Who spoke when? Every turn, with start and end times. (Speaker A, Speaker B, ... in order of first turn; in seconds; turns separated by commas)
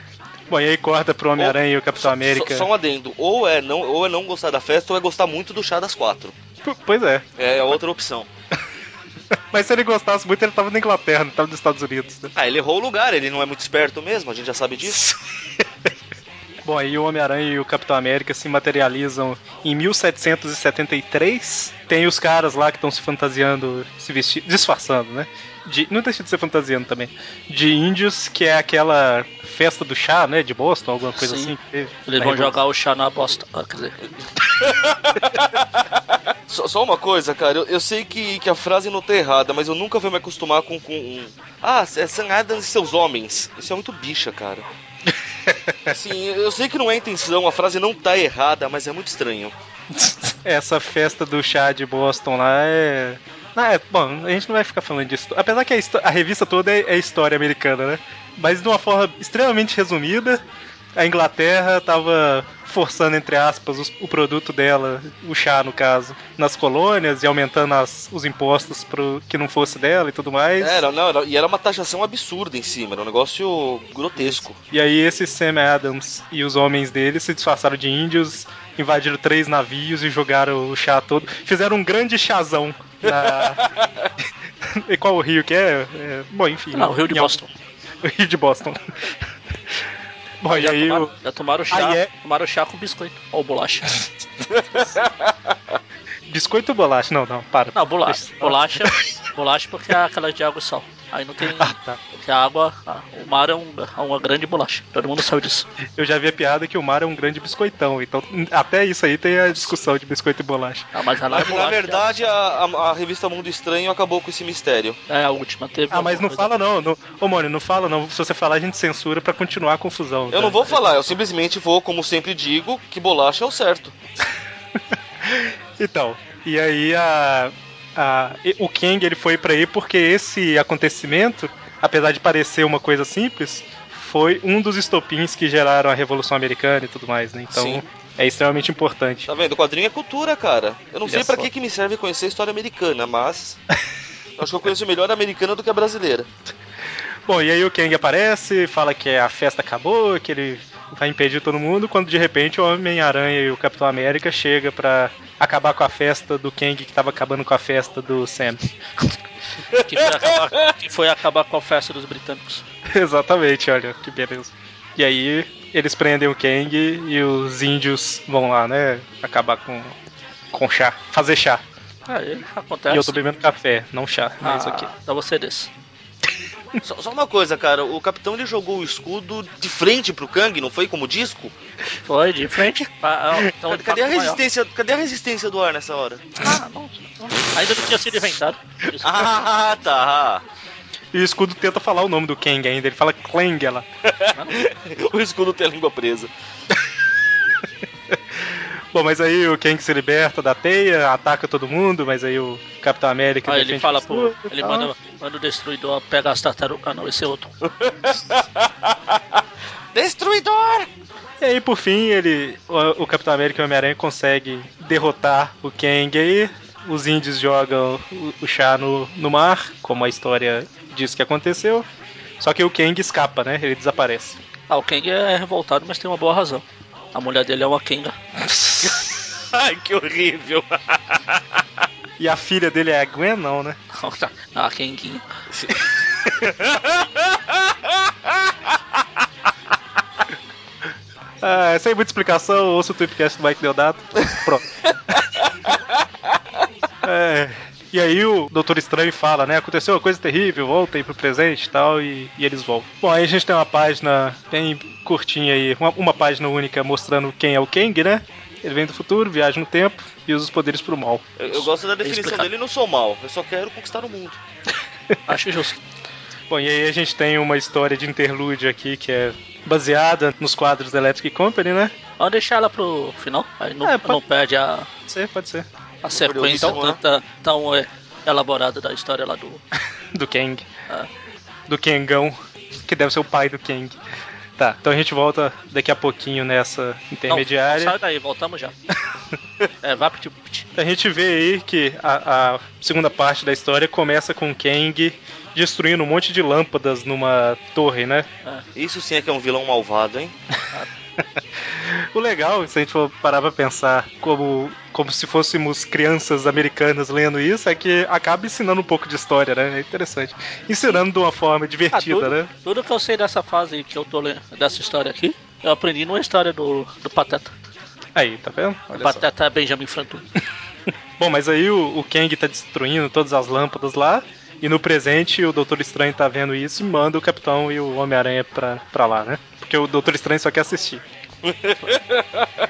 Speaker A: 0.5-2.7, Speaker B: 1.4-6.3, Speaker A: 6.6-7.2, Speaker B: 7.4-8.3, Speaker A: 9.5-12.3, Speaker B: 12.3-15.1, Speaker A: 16.6-32.5, Speaker C: 31.1-31.5, Speaker C: 32.1-34.0, Speaker B: 34.5-35.8, Speaker B: 36.5-44.6, Speaker A: 45.5-45.9, Speaker B: 45.9-49.5, Speaker A: 49.9-60.4, Speaker A: 61.0-70.8, Speaker B: 70.6-74.6, Speaker A: 74.7-83.7, Speaker B: 83.0-84.1, Speaker A: 84.6-87.4, Speaker C: 86.7-87.5, Speaker A: 88.0-89.1, Speaker A: 90.4-91.1, Speaker C: 90.5-94.0, Speaker A: 91.7-92.1, Speaker B: 94.5-95.3, Speaker A: 96.3-99.1, Speaker C: 97.7-105.7, Speaker A: 101.4-102.0, Speaker A: 105.9-110.9, Speaker C: 110.9-112.3, Speaker B: 111.3-115.0, Speaker C: 115.1-116.5, Speaker A: 115.9-120.8, Speaker B: 120.3-123.9, Speaker A: 125.2-139.3, Speaker B: 137.5-137.8, Speaker B: 139.3-143.6, Speaker A: 141.1-141.5, Speaker B: 144.4-146.3, Speaker A: 147.3-158.6, Speaker C: 159.7-162.6, Speaker B: 159.8-160.3, Speaker A: 162.9-169.9, Speaker A: 170.5-171.6, Speaker C: 172.1-173.2, Speaker A: 172.9-174.9, Speaker C: 174.4-175.7, Speaker B: 176.8-181.5, Speaker C: 182.0-184.4, Speaker B: 183.7-186.3, Speaker C: 186.4-189.1, Speaker B: 189.0-190.4, Speaker A: 191.1-193.8, Speaker B: 194.1-196.3, Speaker A: 198.1-204.9, Speaker C: 203.4-207.5, Speaker B: 207.8-209.1, Speaker B: 209.9-210.9, Speaker A: 211.4-221.9, Speaker A: 222.4-224.4, Speaker C: 224.7-228.2, Speaker B: 228.8-231.4, Speaker A: 232.2-233.8, Speaker C: 233.9-235.2, Speaker B: 235.5-238.3, Speaker A: 241.4-244.7, Speaker B: 245.1-245.8, Speaker A: 247.0-261.2, Speaker B: 261.4-264.4, Speaker C: 261.5-262.5, Speaker C: 265.3-265.8, Speaker A: 266.5-271.9, Speaker C: 272.2-274.9, Speaker A: 273.8-274.2, Speaker A: 275.1-275.7, Speaker C: 276.0-279.6, Speaker B: 276.1-277.0, Speaker A: 280.1-280.7, Speaker A: 281.7-284.0, Speaker A: 284.6-287.9, Speaker C: 287.3-288.7, Speaker C: 289.8-290.7, Speaker A: 290.7-298.3, Speaker B: 298.8-300.3, Speaker A: 301.2-312.5, Speaker C: 311.9-317.5, Speaker A: 318.1-319.3, Speaker C: 318.9-320.2, Speaker A: 321.2-331.0, Speaker B: 331.4-332.5